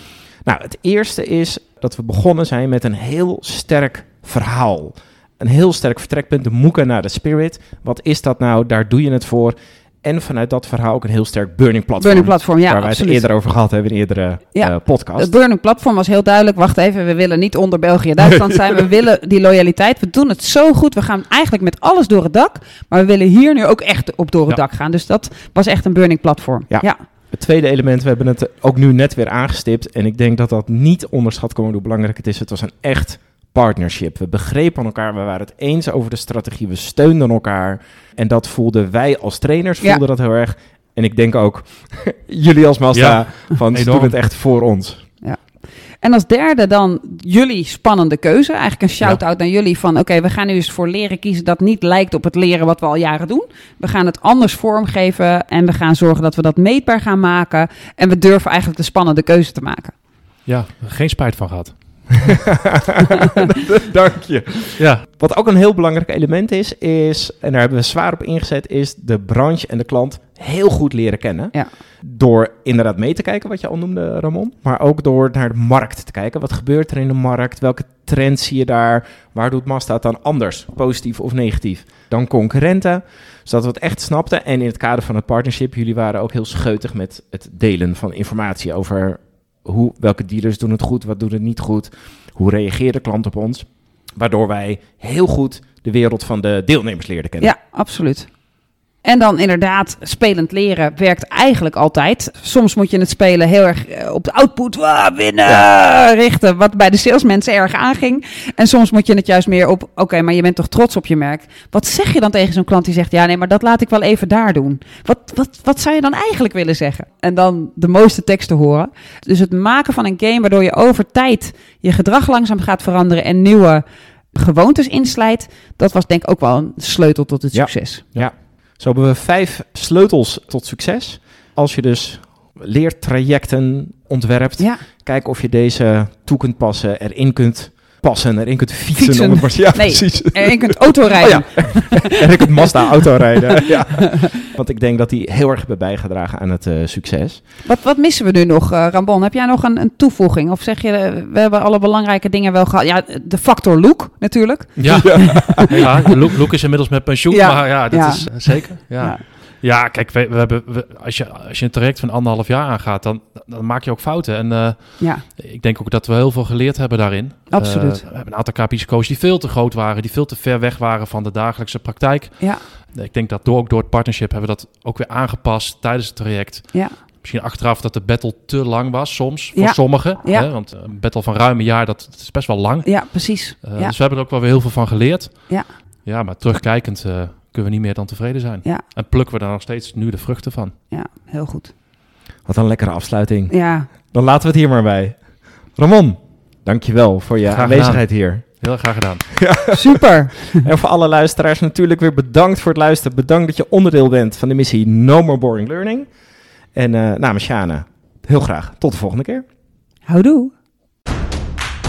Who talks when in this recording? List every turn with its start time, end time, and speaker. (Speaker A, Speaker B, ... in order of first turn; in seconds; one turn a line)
Speaker A: 0.4-15.3
Speaker B: 12.0-13.2
Speaker B: 14.5-27.0
Speaker A: 18.3-18.8
Speaker A: 26.7-45.0
Speaker C: 42.9-43.2
Speaker C: 43.7-44.1
Speaker B: 46.0-59.9
Speaker C: 60.5-61.7
Speaker A: 62.2-97.5
Speaker B: 63.2-63.5
Speaker C: 64.8-65.0
Speaker B: 97.4-98.3
Speaker B: 99.0-128.0
Speaker A: 127.5-147.4
Speaker B: 138.9-144.3
Speaker B: 147.6-155.9
Speaker C: 154.8-164.8
Speaker A: 154.9-155.9
Speaker B: 157.3-158.2
Speaker C: 165.4-172.4
Speaker B: 167.5-168.0
Speaker C: 172.9-176.7
Speaker C: 177.2-182.9
Speaker B: 179.6-180.5
Speaker B: 182.8-183.9
Speaker C: 183.6-185.3
Speaker C: 186.1-190.7
Speaker B: 190.9-191.7
Speaker A: 192.5-193.5
Speaker B: 193.5-193.9
Speaker A: 194.1-195.2
Speaker A: 195.8-198.4
Speaker C: 197.5-198.0
Speaker C: 198.6-199.2
Speaker A: 199.3-206.1
Speaker B: 199.7-200.7
Speaker A: 206.7-209.4
Speaker B: 210.1-210.5